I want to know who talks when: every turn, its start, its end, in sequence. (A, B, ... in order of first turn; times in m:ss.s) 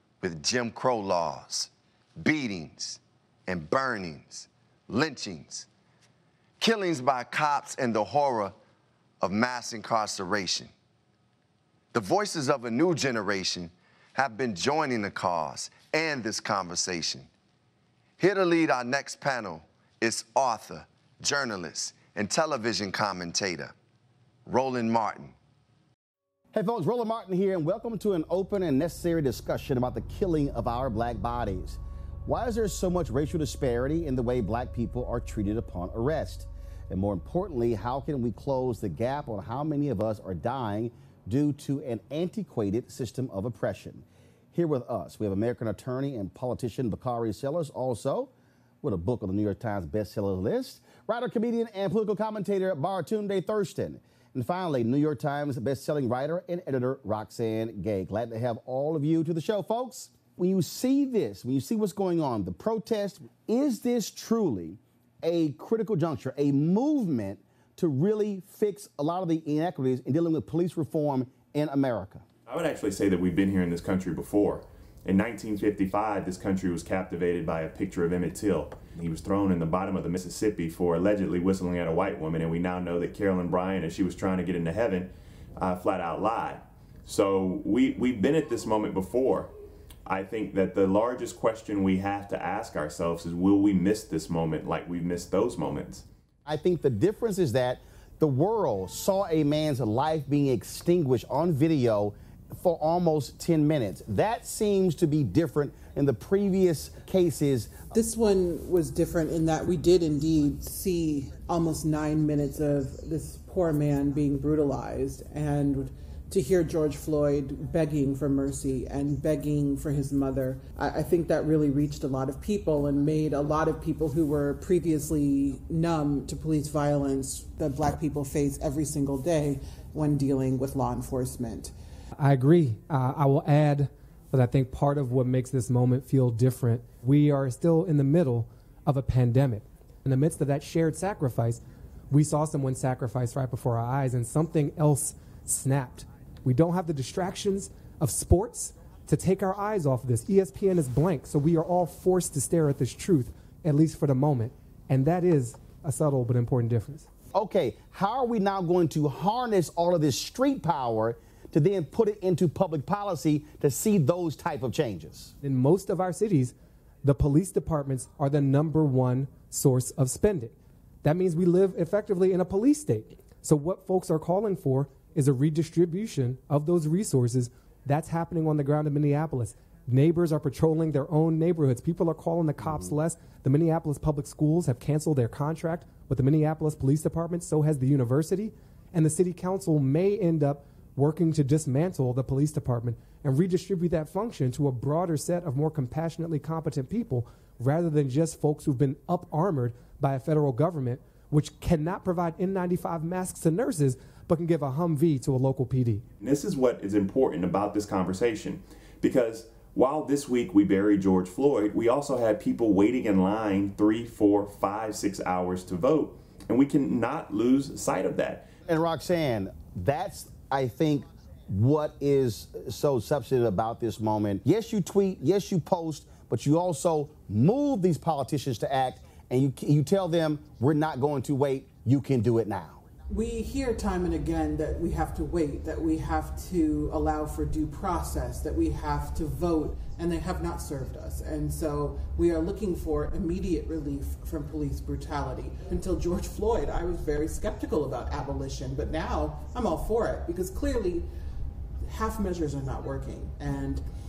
0:00.2-0:05.7 A
0:06.6-0:08.6 A
0:09.2-0:10.7 A
0:11.9-0:17.3 A
0:18.2-0:23.7 A
0:24.5-0:25.3 A
0:26.5-0:48.3 B
0:48.8-1:12.2 B
1:12.5-1:29.5 C
1:30.1-1:36.0 C
1:36.5-1:47.8 B
1:47.9-2:11.7 D
2:12.2-2:37.1 E
2:37.4-2:45.3 B
2:45.4-3:26.0 E
3:26.2-3:38.5 C
3:38.7-3:52.8 B
3:53.1-4:11.1 D
4:11.8-4:13.8 D